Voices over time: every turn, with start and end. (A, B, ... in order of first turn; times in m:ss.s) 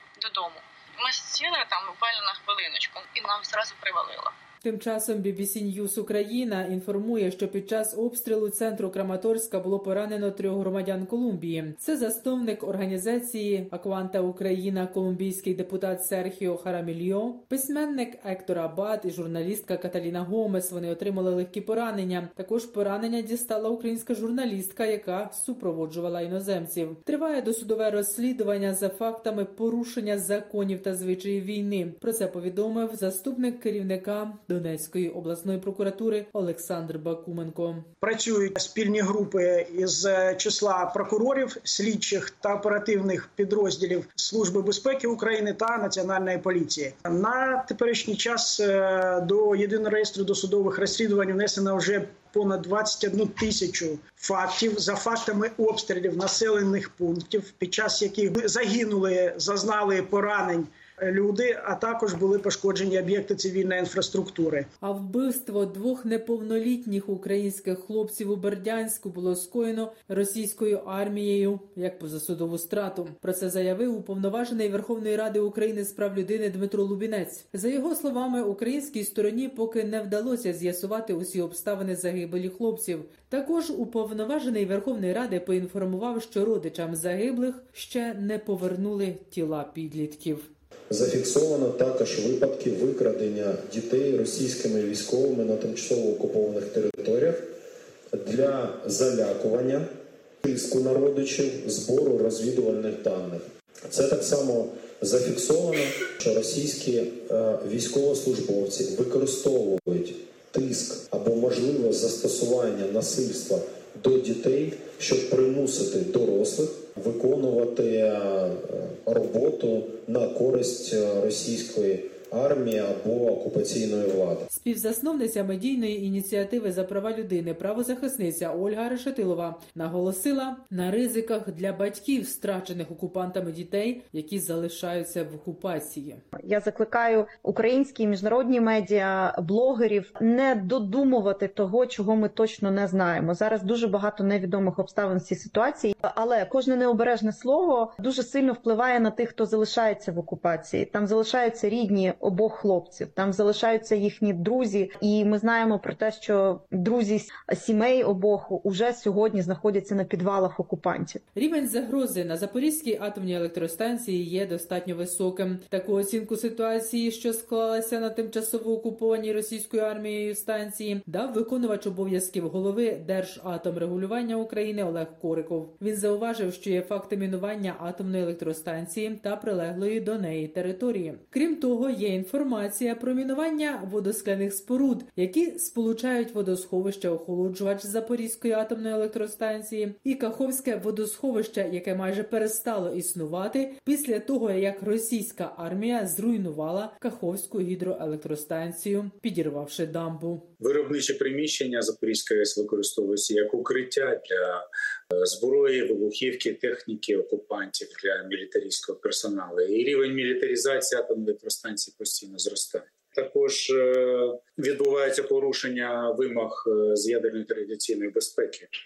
0:00.2-0:04.3 A
0:04.6-0:37.9 B
0:38.0-1:04.7 C
1:04.8-1:30.5 B
1:30.9-1:37.4 D
1:38.1-1:39.9 D
1:40.4-2:04.5 D
2:04.5-2:16.2 B
2:16.4-2:41.2 E
2:41.4-3:20.5 B
3:20.6-3:24.6 F
3:25.1-3:38.7 F